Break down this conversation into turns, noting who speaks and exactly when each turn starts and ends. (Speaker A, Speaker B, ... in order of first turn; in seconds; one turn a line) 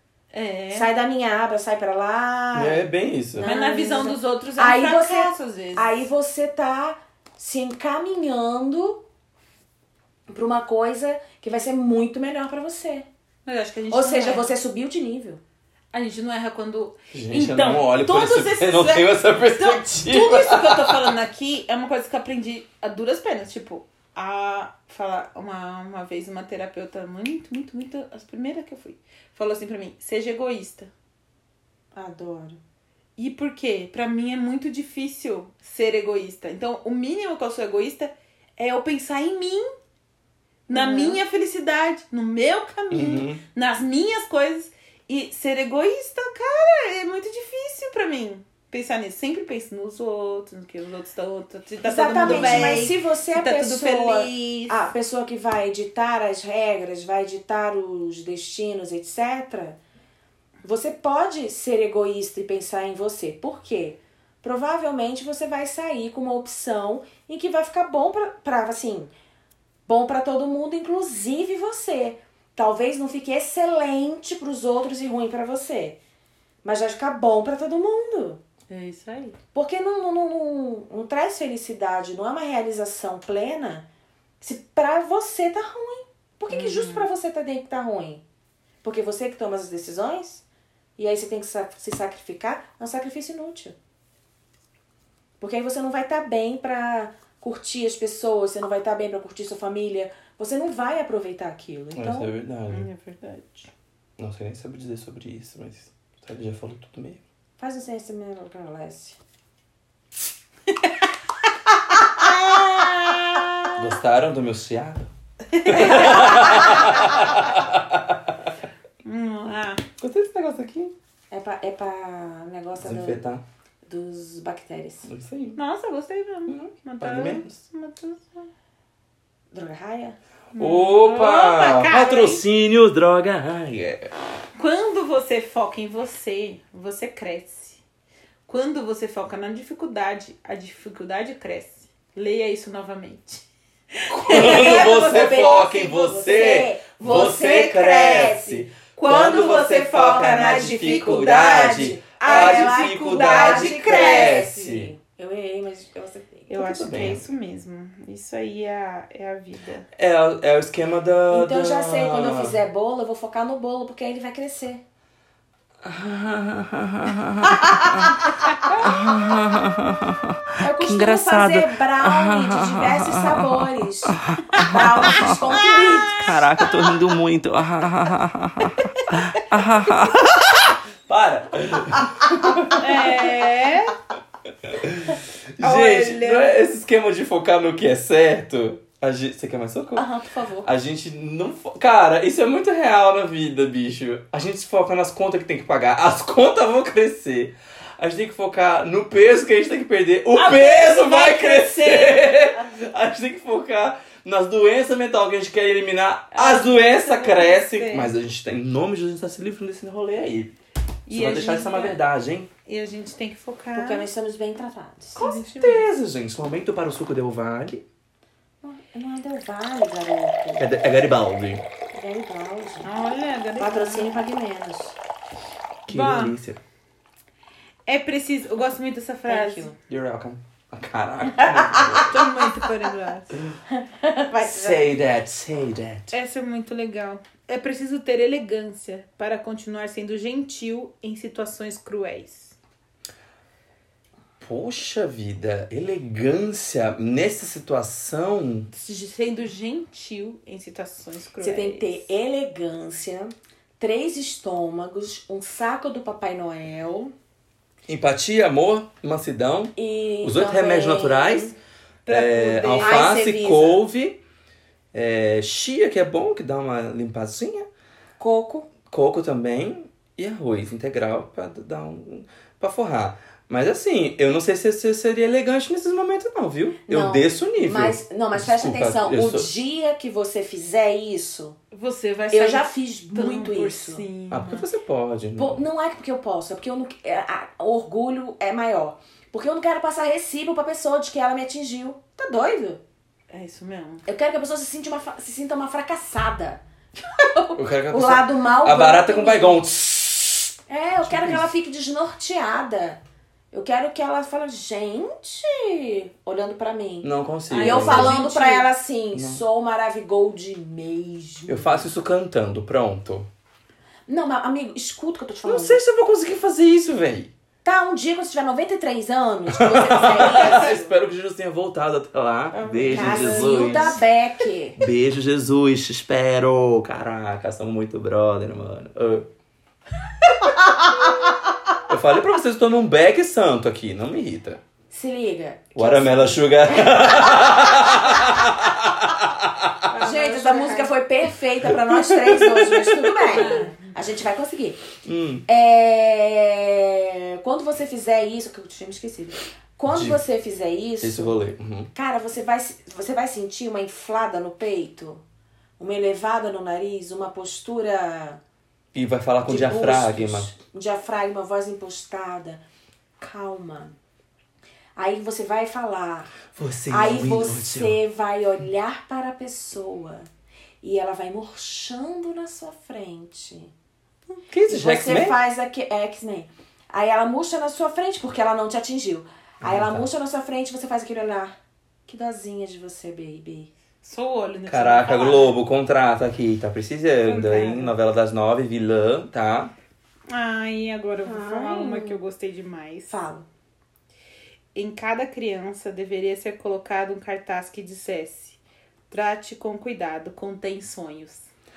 Speaker A: 0.3-0.9
Speaker B: 0.7-2.9
Speaker C: 2.5-3.5
Speaker B: 3.4-9.0
Speaker A: 3.4-6.0
Speaker B: 10.3-13.1
Speaker A: 13.4-14.5
Speaker B: 13.9-15.4
Speaker A: 15.9-30.9
Speaker C: 17.1-21.1
Speaker B: 31.9-32.6
Speaker A: 33.2-39.7
Speaker A: 40.7-54.8
Speaker B: 40.7-41.2
Speaker C: 42.9-43.4
Speaker B: 51.8-59.8
Speaker C: 52.2-52.9
Speaker B: 60.6-69.1
Speaker B: 69.9-76.0
Speaker B: 76.6-78.4
Speaker A: 78.7-79.4
Speaker B: 79.5-83.9
Speaker B: 84.4-88.2
Speaker A: 86.5-87.1
Speaker B: 88.8-90.4
Speaker B: 91.0-93.8
Speaker B: 95.4-102.3
Speaker C: 101.9-102.9
Speaker A: 102.7-103.7
Speaker C: 104.2-107.2
Speaker B: 107.6-109.2
Speaker A: 111.9-113.7
Speaker C: 113.8-115.1
Speaker A: 115.5-117.1
Speaker C: 115.6-118.3
Speaker A: 119.0-119.8
Speaker C: 120.0-120.9
Speaker B: 121.3-123.2
Speaker C: 122.8-123.4
Speaker B: 123.9-125.1
Speaker C: 125.1-125.6
Speaker A: 125.6-128.5
Speaker C: 126.5-127.5
Speaker B: 129.5-130.2
Speaker A: 130.5-132.4
Speaker C: 130.6-134.1
Speaker A: 134.6-137.8
Speaker A: 138.4-145.7
Speaker C: 144.1-154.9
Speaker B: 144.3-156.5
Speaker A: 149.0-154.4
Speaker A: 156.5-159.9
Speaker C: 156.5-157.2
Speaker C: 159.9-162.6
Speaker B: 161.3-164.8
Speaker C: 165.8-183.3
Speaker A: 168.6-169.0
Speaker B: 170.6-176.7
Speaker A: 174.5-176.0
Speaker A: 182.8-183.9
Speaker C: 184.6-190.1
Speaker A: 185.6-186.6
Speaker B: 190.0-190.6
Speaker A: 190.2-190.6
Speaker C: 190.6-210.6
Speaker A: 200.3-202.5
Speaker A: 206.3-208.1
Speaker A: 211.1-212.0
Speaker C: 211.1-212.5
Speaker A: 212.7-214.1
Speaker B: 213.7-215.2
Speaker A: 215.2-215.9
Speaker C: 215.2-217.8
Speaker B: 218.6-220.7
Speaker C: 220.6-221.6
Speaker B: 221.9-223.0
Speaker A: 222.8-224.2
Speaker B: 223.6-225.0
Speaker C: 225.9-226.6
Speaker A: 225.9-226.4
Speaker A: 227.9-229.7
Speaker B: 229.3-229.8
Speaker C: 229.9-232.2
Speaker B: 231.4-232.1
Speaker A: 232.0-233.4
Speaker B: 233.8-234.3
Speaker A: 234.3-234.9
Speaker C: 234.4-236.1
Speaker A: 236.1-242.6
Speaker C: 244.4-248.7
Speaker A: 248.7-252.1
Speaker B: 251.4-257.1
Speaker C: 257.9-261.5
Speaker B: 259.8-261.5
Speaker A: 262.1-263.1
Speaker C: 262.1-264.2
Speaker B: 262.8-263.8
Speaker C: 264.9-267.7
Speaker B: 268.2-268.7
Speaker C: 268.9-279.5
Speaker B: 276.9-281.6
Speaker A: 281.7-284.6
Speaker B: 282.3-284.0
Speaker C: 284.3-285.6
Speaker B: 285.4-292.8
Speaker A: 293.3-294.0
Speaker B: 294.1-299.6
Speaker C: 297.6-301.5
Speaker B: 300.7-303.0
Speaker B: 303.5-311.9
Speaker C: 307.0-308.2
Speaker A: 307.5-308.7
Speaker C: 309.1-309.4
Speaker C: 311.5-313.3
Speaker B: 314.1-315.8
Speaker C: 315.4-317.3
Speaker B: 317.6-320.9
Speaker C: 319.5-324.0
Speaker A: 320.2-320.7
Speaker A: 322.5-324.0
Speaker B: 322.9-324.8
Speaker C: 324.8-329.3
Speaker C: 331.9-334.6
Speaker B: 334.9-338.3
Speaker C: 335.7-339.9
Speaker A: 339.9-340.9
Speaker B: 340.0-351.4
Speaker C: 341.6-343.6
Speaker A: 343.3-343.9
Speaker C: 345.0-345.4
Speaker C: 349.9-350.2
Speaker C: 351.0-351.9
Speaker B: 351.9-355.2
Speaker B: 355.8-358.4
Speaker C: 358.9-360.5
Speaker B: 359.4-362.6
Speaker B: 363.2-363.9
Speaker B: 364.9-370.3
Speaker C: 366.5-368.0
Speaker B: 370.8-373.7
Speaker C: 374.5-375.4
Speaker B: 374.7-381.6
Speaker C: 379.6-380.1
Speaker B: 382.1-383.7
Speaker A: 384.0-385.6
Speaker C: 384.7-389.7
Speaker A: 387.2-387.9
Speaker A: 390.3-393.1
Speaker B: 391.2-392.2
Speaker B: 393.1-393.4
Speaker A: 394.7-398.6
Speaker A: 399.1-401.5